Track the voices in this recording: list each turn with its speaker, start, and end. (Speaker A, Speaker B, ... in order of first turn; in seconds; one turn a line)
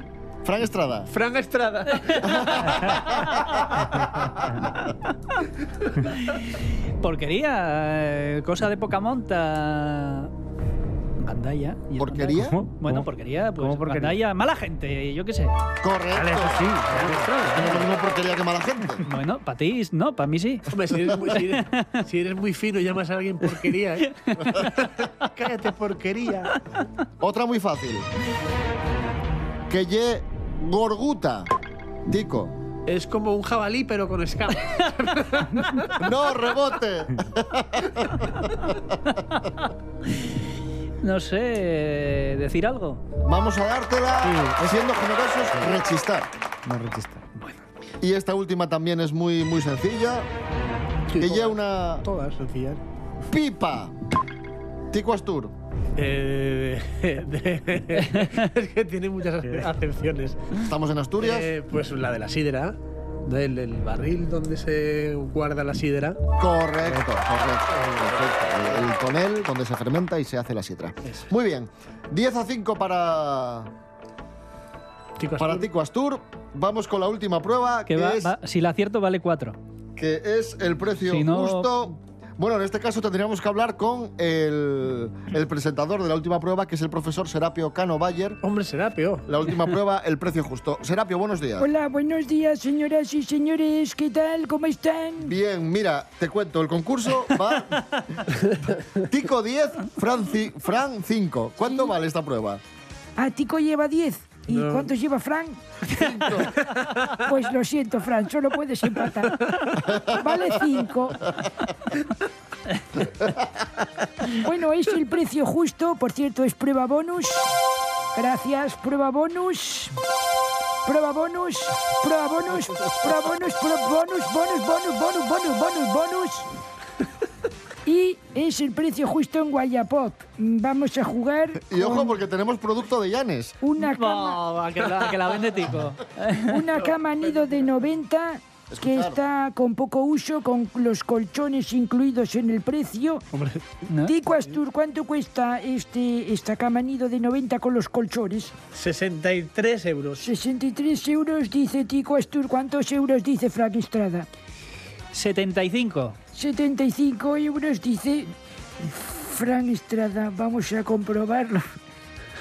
Speaker A: 0.4-1.1
Speaker B: 1.1-3.0
Speaker A: 2.5-3.4
Speaker C: 7.0-10.3
Speaker C: 11.2-15.6
Speaker A: 12.0-12.6
Speaker D: 12.4-14.2
Speaker A: 15.8-16.7
Speaker D: 16.1-17.3
Speaker C: 16.9-17.9
Speaker A: 17.4-19.0
Speaker C: 19.1-20.7
Speaker B: 20.7-26.5
Speaker C: 21.3-22.0
Speaker C: 24.0-24.8
Speaker A: 27.2-28.1
Speaker A: 29.7-31.5
Speaker A: 32.1-32.6
Speaker B: 32.9-35.9
Speaker A: 36.0-38.8
Speaker C: 41.0-43.0
Speaker A: 43.2-46.3
Speaker D: 44.2-44.7
Speaker D: 46.7-47.4
Speaker A: 48.0-50.3
Speaker B: 51.1-52.8
Speaker A: 51.2-52.0
Speaker A: 53.3-53.9
Speaker A: 54.9-55.5
Speaker B: 56.0-60.6
Speaker A: 60.7-61.5
Speaker B: 61.2-66.2
Speaker A: 66.4-73.7
Speaker B: 67.7-68.3
Speaker B: 75.2-75.7
Speaker A: 75.4-78.4
Speaker C: 77.9-79.6
Speaker A: 80.0-88.4
Speaker C: 81.0-81.8
Speaker B: 88.4-89.5
Speaker A: 89.2-91.7
Speaker E: 91.6-95.3
Speaker A: 95.2-98.0
Speaker A: 99.0-102.6
Speaker E: 101.6-101.9
Speaker E: 103.2-106.5
Speaker B: 104.5-104.9
Speaker A: 105.9-106.5
Speaker B: 106.5-107.2
Speaker E: 107.1-111.3
Speaker E: 114.3-117.5
Speaker E: 118.2-120.0
Speaker E: 120.8-126.5
Speaker E: 127.9-132.2
Speaker A: 131.7-133.6
Speaker E: 133.6-134.4
Speaker C: 133.8-136.6
Speaker E: 136.4-143.3
Speaker A: 138.7-139.2
Speaker B: 143.3-143.6
Speaker C: 143.9-144.2
Speaker E: 144.0-148.5
Speaker B: 148.7-150.2
Speaker E: 150.2-154.3
Speaker C: 155.1-156.2
Speaker E: 156.3-158.3
Speaker E: 159.1-161.7